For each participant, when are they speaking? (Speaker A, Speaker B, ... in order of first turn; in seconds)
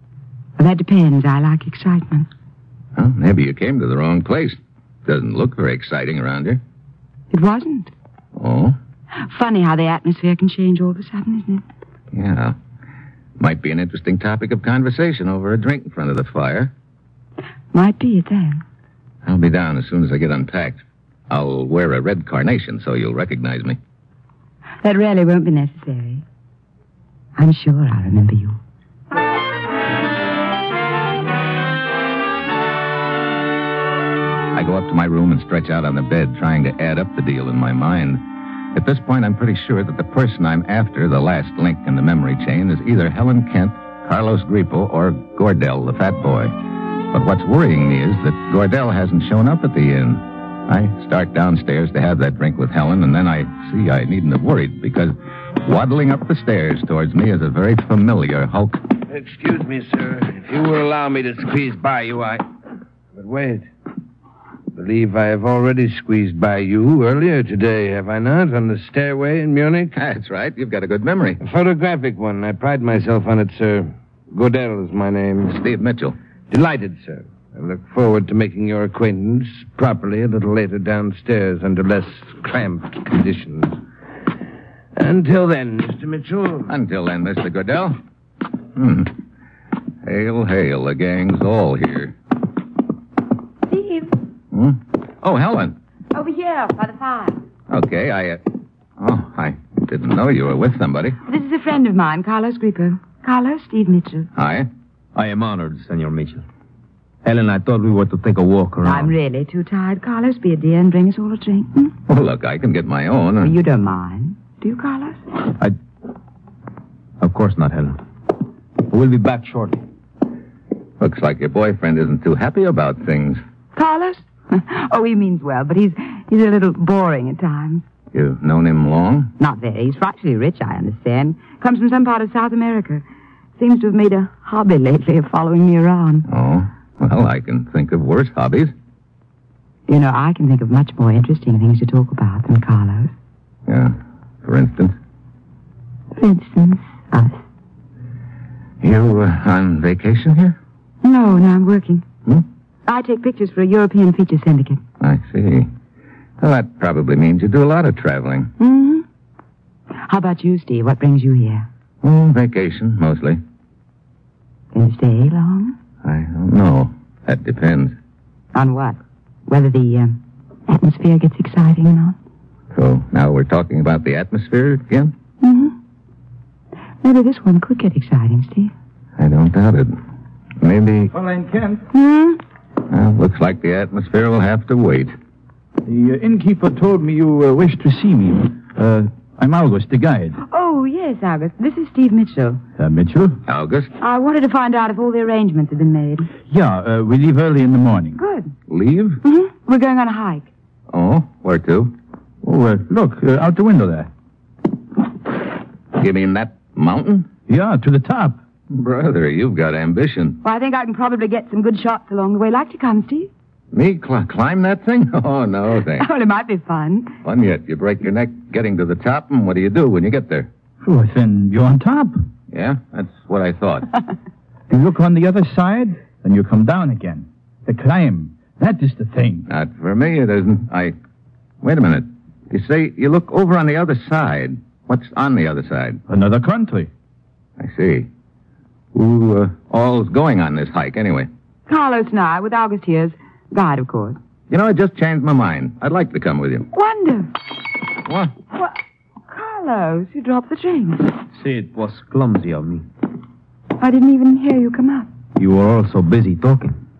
Speaker A: 0.6-2.3, 7.3-7.9, 9.2-11.6, 17.7-18.6, 24.8-26.2, 27.4-28.6, 93.7-94.1, 96.1-97.4, 101.2-104.3, 108.8-111.9, 113.4-115.2, 123.8-127.8, 129.4-133.0, 133.6-136.2, 139.9-143.1, 146.1-147.4, 151.0-152.0, 152.9-154.8, 158.6-159.0, 160.0-161.7, 164.7-165.8, 168.5-172.2, 175.4-175.7, 177.0-178.7, 181.9-182.4, 190.4-192.6, 194.0-196.3, 198.2-198.5, 199.2-200.5, 210.4-213.3, 216.0-217.2, 241.7-244.2, 246.7-247.3, 249.3-251.1, 253.8-255.1
Speaker B: 3.0-6.6, 8.3-8.8, 12.1-12.6, 13.4-16.7, 19.2-23.8, 34.5-38.2, 38.7-46.5, 47.1-58.8, 69.9-71.4, 75.5-76.2, 86.7-88.0, 88.7-89.1, 90.0-92.1, 94.5-95.8, 97.7-98.4, 99.0-101.2, 104.3-104.7, 112.1-113.5, 121.0-123.4, 128.1-129.3, 136.3-138.7, 143.7-144.9, 148.8-150.6, 155.0-155.7, 156.4-158.5, 162.0-163.4, 166.0-167.9, 172.7-175.1, 179.2-180.0, 180.6-181.1, 182.9-185.1, 193.4-193.9, 198.7-199.2, 200.9-201.9, 205.9-207.3, 208.7-210.4, 213.7-216.1, 217.2-220.5, 222.5-223.9, 229.5-230.9, 231.6-236.0, 237.6-238.1, 238.9-241.3, 244.5-246.7, 248.0-248.3
Speaker C: 59.1-62.4, 63.1-63.7, 64.7-69.9, 71.4-75.6, 76.5-83.8, 84.9-86.7
Speaker D: 105.1-106.4, 107.2-109.1, 117.2-118.0, 118.8-119.8, 251.4-252.8, 255.4-256.8
Speaker E: 181.1-181.8, 185.8-190.4, 192.8-193.4, 196.5-198.2, 202.4-204.1, 207.5-208.4, 220.8-222.2, 224.7-229.4, 236.1-236.9